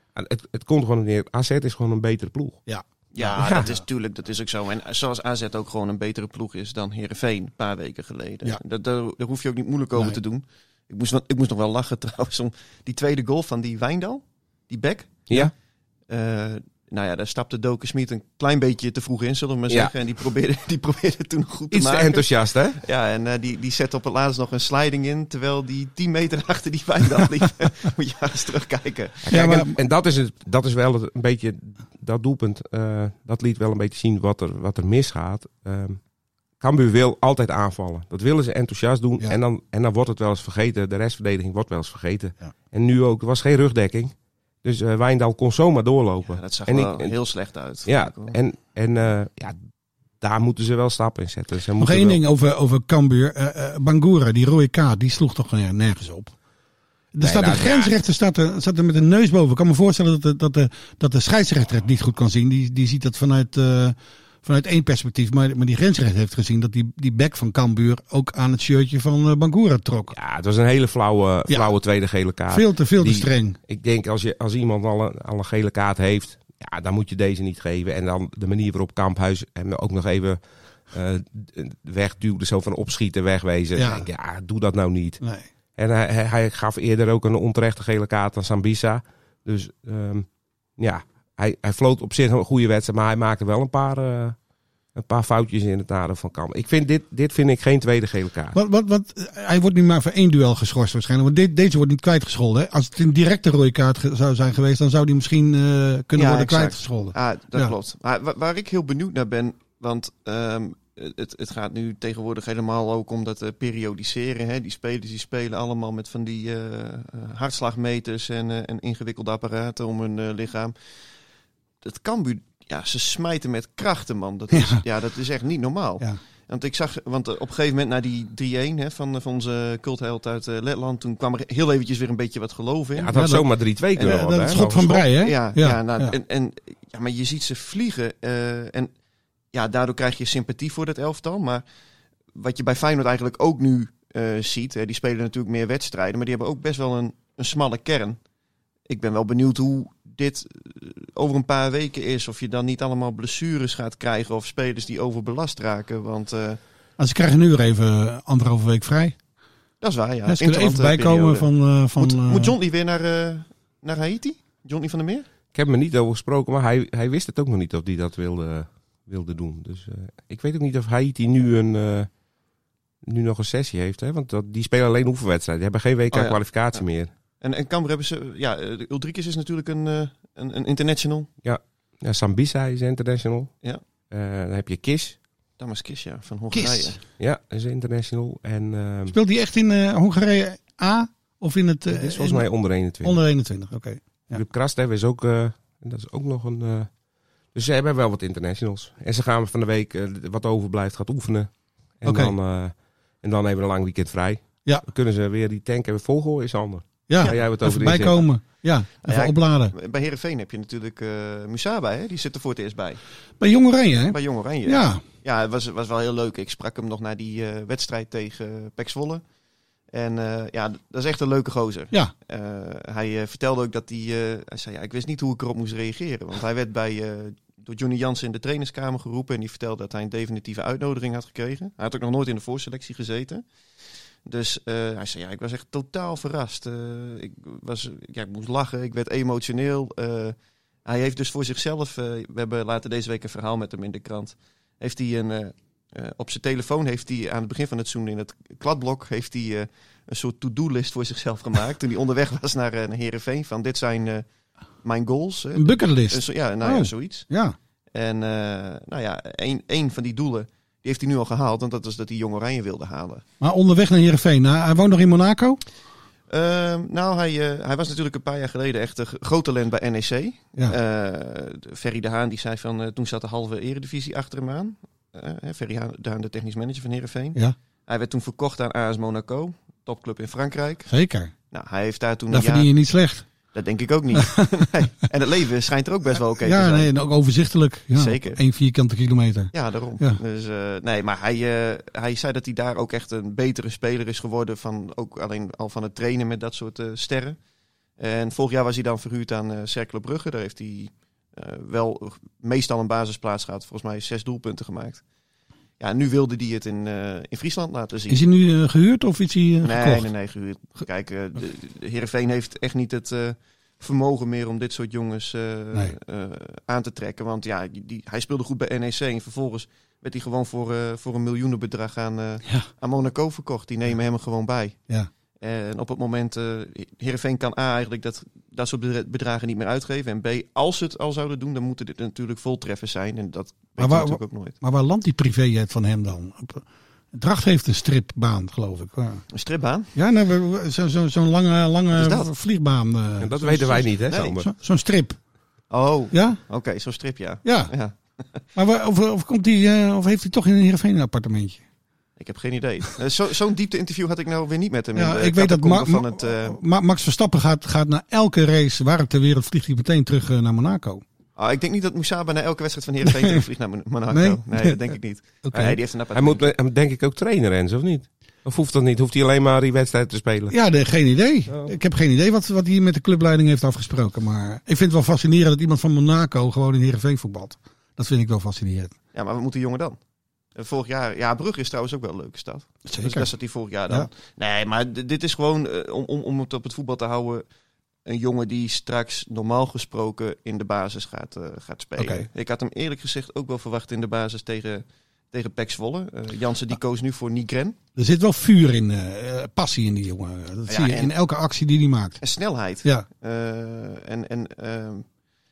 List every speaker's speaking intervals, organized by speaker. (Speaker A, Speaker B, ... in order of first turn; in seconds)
Speaker A: 0.1-2.6, 3.4-3.7, 21.7-22.8, 29.2-36.0, 36.6-47.1, 47.9-49.5, 50.2-52.2, 57.2-57.9, 70.1-80.4, 80.9-85.2, 85.8-90.2, 90.8-94.3, 94.9-98.6, 132.9-135.0, 165.5-172.1, 173.0-177.1, 181.4-183.5, 184.1-185.2, 187.2-189.1, 191.9-193.2, 194.3-196.9, 197.5-208.2, 343.2-344.5, 365.6-370.5
Speaker B: 2.7-3.3, 29.3-29.7, 51.8-56.3, 57.1-70.1, 72.5-73.6, 83.7-84.1, 85.2-85.5, 98.5-107.7, 124.5-124.8, 133.1-133.4, 134.0-136.1, 157.0-159.2, 160.3-162.5, 186.5-186.9, 189.1-192.5, 193.0-194.4, 202.0-202.3, 207.1-209.7, 213.4-215.0, 255.6-257.5, 263.4-265.6, 280.9-281.3, 282.3-283.2, 284.1-284.7, 286.4-290.2, 308.1-310.1, 333.8-339.2, 339.9-345.2, 346.1-346.4, 347.4-347.7, 348.5-351.6, 354.9-361.0, 363.0-363.4, 364.1-364.8, 365.4-365.8, 370.5-378.9, 382.9-383.3, 392.0-392.2, 397.9-402.2
Speaker C: 3.1-15.5, 16.1-29.3, 46.2-48.4, 106.2-120.7, 121.8-133.1, 134.0-134.3, 135.1-138.9, 139.5-141.6, 142.3-148.2, 148.9-156.6, 159.8-165.2, 176.1-176.8, 177.4-181.3, 185.6-187.0, 209.0-213.0, 214.1-219.2, 219.9-233.4, 234.2-254.2, 254.8-257.3, 257.9-263.2, 266.3-280.9, 281.5-282.7, 283.5-286.9, 287.9-288.4, 289.5-297.4, 298.0-305.0, 305.8-308.2, 309.6-324.8, 325.4-334.6, 339.3-339.9, 341.9-342.3, 344.1-344.4, 345.7-348.4, 352.2-356.6, 361.4-366.5, 379.1-380.0, 380.5-387.4, 388.1-397.8, 400.7-401.1, 402.2-405.0